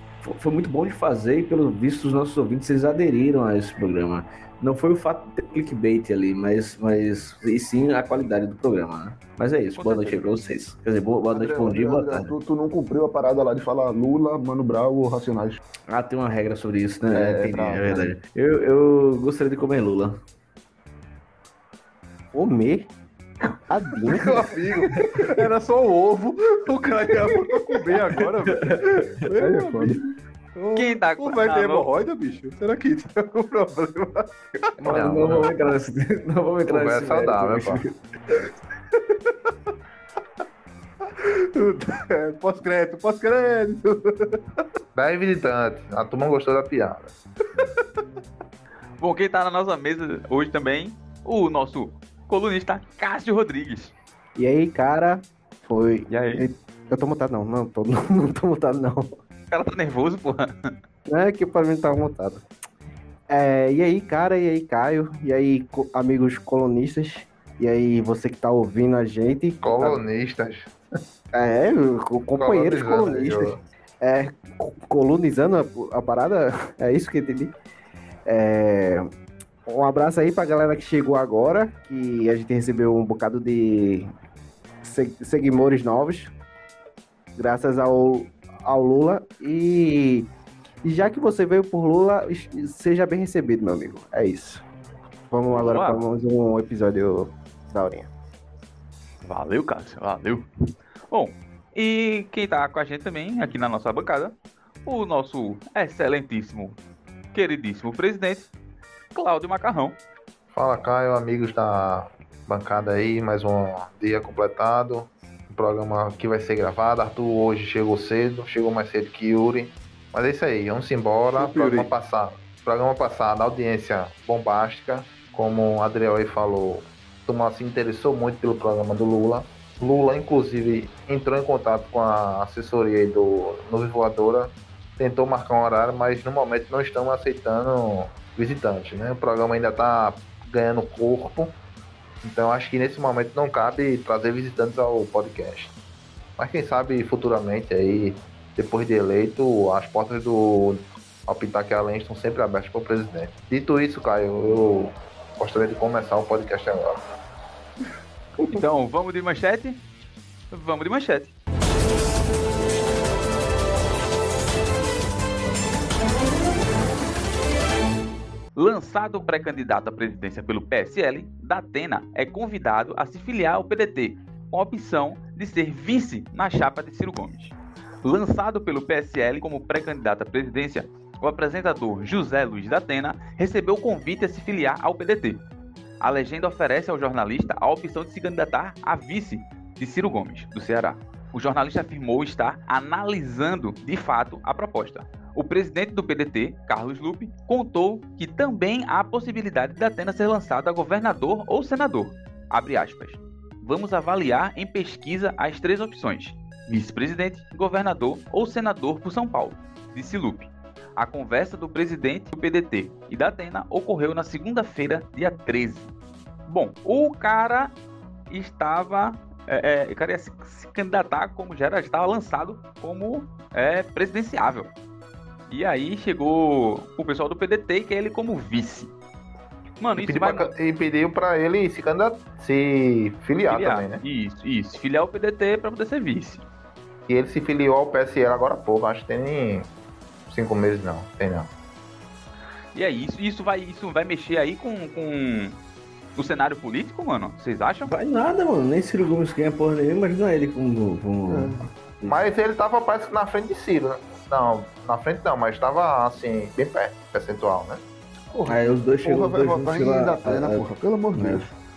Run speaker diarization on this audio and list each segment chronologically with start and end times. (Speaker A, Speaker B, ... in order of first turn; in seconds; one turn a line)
Speaker A: 0.2-12.3
Speaker B: 9.8-10.2
Speaker C: 11.3-15.6
Speaker A: 15.9-20.2
Speaker D: 17.1-18.0
Speaker E: 22.3-22.9
Speaker E: 23.7-24.4
Speaker F: 24.1-34.8
Speaker C: 24.8-25.2
Speaker A: 28.4-29.3
Speaker C: 29.4-29.9
Speaker B: 30.7-31.9
Speaker A: 34.8-38.5
Speaker D: 34.8-35.7
Speaker D: 36.7-37.8
Speaker F: 41.1-44.4
Speaker D: 44.9-47.1
Speaker F: 47.6-47.8
Speaker B: 49.0-53.9
Speaker E: 54.4-59.1
Speaker B: 56.1-56.5
Speaker B: 59.5-60.7
Speaker E: 61.1-62.4
Speaker E: 63.3-70.0
Speaker D: 69.6-70.7
Speaker E: 71.3-77.5
Speaker D: 72.3-73.6
Speaker E: 78.2-79.1
Speaker E: 79.7-84.1
Speaker E: 84.8-86.3
Speaker E: 87.3-90.3
Speaker E: 90.8-94.6
Speaker E: 95.3-98.1
Speaker B: 95.5-96.0
Speaker B: 99.2-100.5
Speaker B: 101.1-104.3
Speaker B: 104.8-106.8
Speaker B: 107.3-108.5
Speaker B: 109.1-110.0
Speaker D: 110.5-141.5
Speaker F: 121.3-121.9
Speaker D: 142.2-145.7
Speaker D: 146.4-157.0
Speaker B: 158.4-159.8
Speaker B: 160.5-161.3
Speaker B: 168.5-185.4
Speaker B: 186.0-215.9
Speaker B: 216.4-217.7
Speaker B: 218.3-224.7
Speaker B: 225.5-228.9
Speaker B: 229.8-230.5
Speaker D: 229.9-234.0
Speaker B: 233.5-236.4
Speaker D: 237.1-239.7
Speaker D: 240.3-241.5
Speaker B: 242.7-245.6
Speaker B: 246.2-247.9
Speaker A: 247.9-252.2
Speaker C: 251.3-251.7
Speaker D: 252.1-257.8
Speaker C: 258.3-261.5
Speaker A: 258.4-261.4